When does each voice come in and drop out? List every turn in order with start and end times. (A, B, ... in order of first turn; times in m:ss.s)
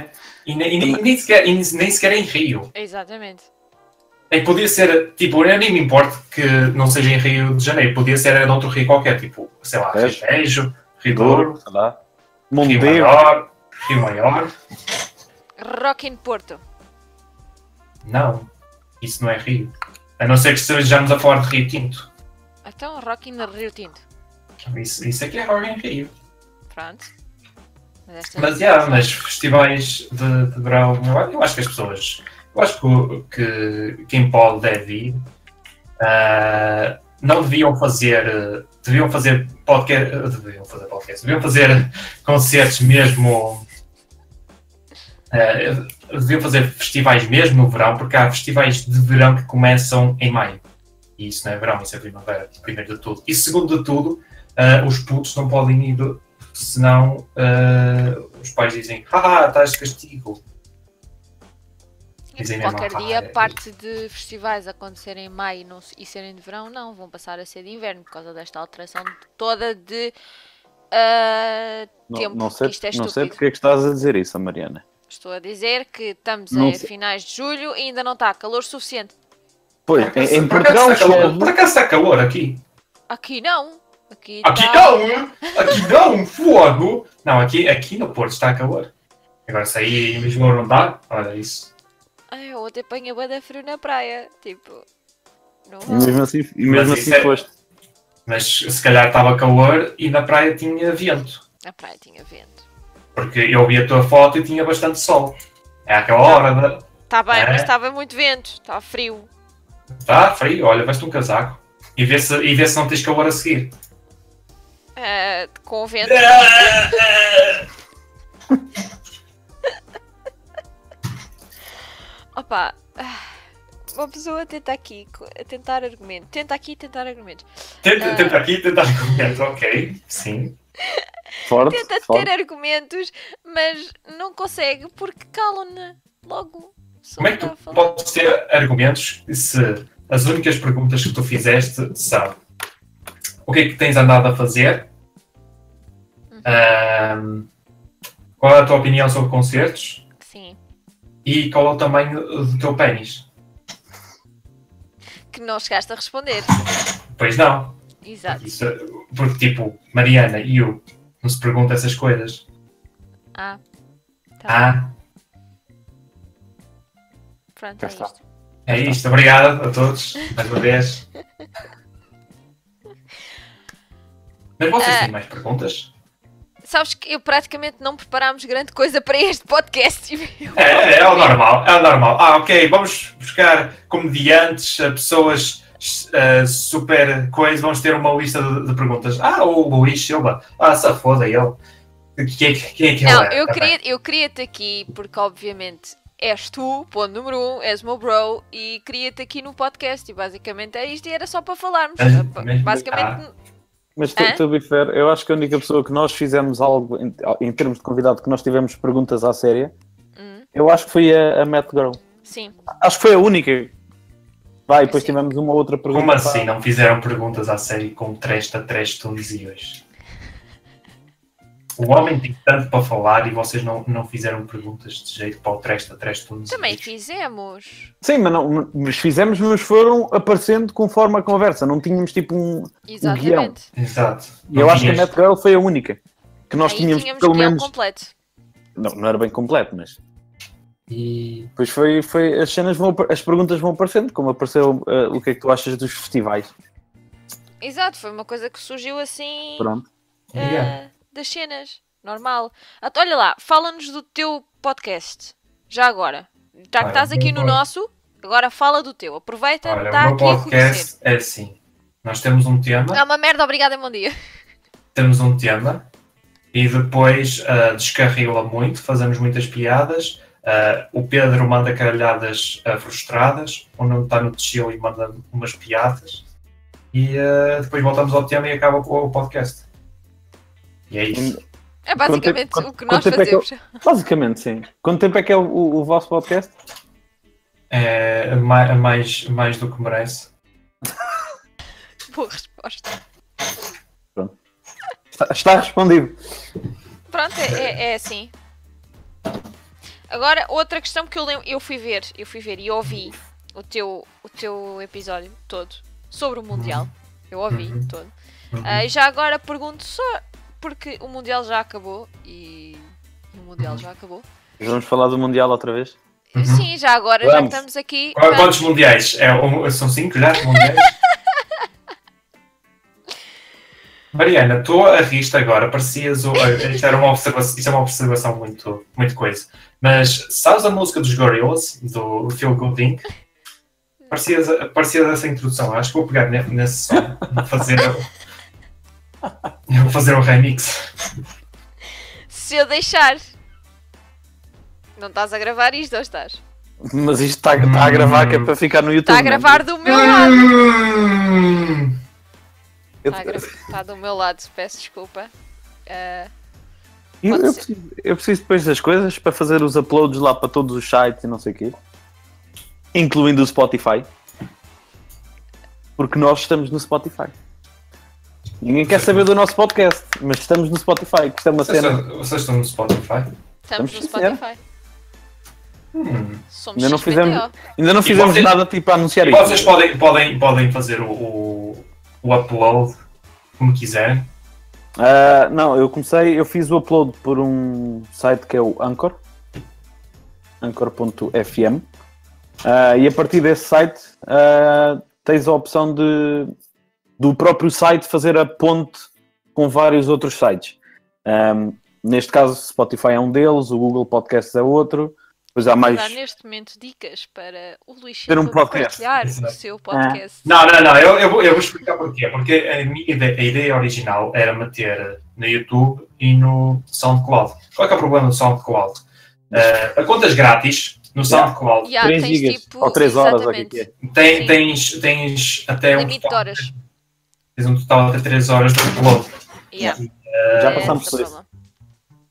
0:00.4-0:02.7 A
0:02.7-0:03.5 B
0:04.3-0:11.6 A
0:09.9-0:10.2 C
0:11.1-0:12.0 C
0:12.5-0:13.2 C
0:12.6-0:14.5 A
0:15.6-0:16.6 B
0:18.0-0:18.5 A
0:19.0-0:22.1 A
0:22.6-0:24.0 B
0:24.7-0:26.1 A
0:26.7-0:27.1 B
0:28.1-0:29.2 B
0:28.4-0:35.2 A
0:36.0-0:43.6 A
0:45.3-0:50.6 A
0:51.2-1:00.4 A
1:02.3-1:10.2 B
1:02.4-1:03.6 A
1:10.9-1:13.4 B
1:12.1-1:14.8 C
1:15.1-1:19.1 B
1:16.5-1:16.9 C
1:19.9-1:21.5 C
1:20.0-1:22.6 A
1:23.1-1:25.8 B
1:24.4-1:28.9 A
1:29.5-1:31.7 A
1:32.3-1:34.8 B
1:35.7-1:36.2 B
1:35.9-1:37.5 C
1:36.6-1:37.4 A
1:38.3-1:41.4 A
1:41.6-1:42.6 B
1:43.2-1:47.7 A
1:46.2-1:46.5 B
1:47.1-1:49.3 B
1:50.0-1:53.7 A
1:55.0-1:57.0 B
1:56.1-1:57.6 A
2:02.4-2:03.3 B
2:03.9-2:07.5 B
2:07.8-2:10.6 A
2:08.0-2:08.4 B
2:11.4-2:12.3 C
2:11.6-2:18.0 B
2:17.2-2:22.4 A
2:23.5-2:24.9 A
2:26.3-2:26.8 B
2:26.4-2:27.5 A
2:28.4-2:30.0 A
2:30.2-2:30.6 B
2:31.2-2:33.3 A
2:35.3-2:36.6 B
2:37.1-2:42.4 A
2:38.0-2:38.4 B
2:43.4-2:43.6 B
2:44.4-2:44.7 B
2:44.5-2:45.0 A
2:47.6-2:48.2 B
2:47.8-2:48.1 C
2:48.7-2:51.0 A
2:48.7-2:49.0 C
2:54.6-2:55.9 A
2:54.8-2:55.1 B
2:56.6-3:01.4 B
3:00.6-3:11.6 A
3:12.2-3:13.8 A
3:13.0-3:23.3 B
3:22.0-3:23.2 A
3:24.0-3:29.7 C
3:24.2-3:24.4 B
3:30.2-3:30.5 B
3:30.5-3:32.0 C
3:32.2-3:32.6 B
3:32.8-3:33.7 C
3:34.7-3:36.5 C
3:34.8-3:35.2 B
3:35.9-3:39.8 A
3:41.8-3:46.9 A
3:46.5-3:47.9 B
3:48.0-3:53.5 C
3:52.9-3:53.7 B
3:53.8-3:55.1 A
3:54.5-3:57.7 C
3:56.6-3:58.1 B
3:58.8-4:00.0 C
4:00.9-4:01.5 A
4:01.6-4:06.5 C
4:07.6-4:09.7 B
4:09.6-4:09.9 C
4:10.3-4:10.8 A
4:10.4-4:20.9 B
4:16.8-4:17.6 A
4:19.6-4:23.0 A
4:22.9-4:24.2 B
4:25.0-4:25.9 A
4:26.5-4:36.2 A
4:36.9-4:39.7 A
4:40.9-4:41.4 A
4:41.1-4:41.4 C
4:41.9-4:43.6 B
4:42.0-4:46.5 C
4:47.7-4:50.3 A
4:52.1-4:52.9 B
4:55.1-4:56.2 C
4:57.1-4:58.3 B
4:57.5-4:57.7 A
5:00.1-5:08.1 B
5:06.5-5:06.9 A
5:07.5-5:07.9 A
5:08.5-5:08.9 A
5:08.6-5:14.3 B
5:14.6-5:16.0 C
5:16.3-5:18.6 B
5:16.4-5:16.7 A
5:17.2-5:17.6 C
5:18.2-5:21.0 A
5:24.1-5:33.1 A
5:34.1-5:38.1 A
5:39.7-5:40.8 A
5:42.3-5:43.2 B
5:45.0-5:46.4 B
5:46.8-5:49.6 C
5:47.6-5:48.5 A
5:49.0-5:50.5 B
5:49.9-5:52.0 A
5:53.0-5:53.5 C
5:53.1-5:55.3 B
5:55.9-5:56.3 B
5:57.2-6:01.8 C
5:57.3-5:57.6 B
6:02.9-6:04.1 C
6:06.0-6:07.4 C
6:08.6-6:12.0 C
6:08.8-6:09.3 A
6:11.6-6:13.3 A
6:13.6-6:14.6 B
6:13.8-6:14.4 C
6:15.9-6:16.4 A
6:16.5-6:17.6 B
6:16.8-6:19.8 C
6:18.0-6:18.6 A
6:19.2-6:23.0 A
6:23.6-6:24.3 A
6:25.0-6:29.2 C
6:30.6-6:31.9 C
6:32.6-6:36.5 C
6:37.2-6:46.2 C
6:45.6-6:50.5 B
6:48.3-6:49.0 C
6:49.2-6:49.5 A
6:49.9-6:50.2 C
6:50.4-7:02.0 A
7:01.3-7:03.9 C
7:01.8-7:04.6 B
7:04.0-7:06.7 A
7:05.9-7:06.7 B
7:07.6-7:09.3 A
7:09.7-7:10.0 B
7:09.9-7:11.1 A
7:10.6-7:11.3 C
7:10.6-7:11.5 B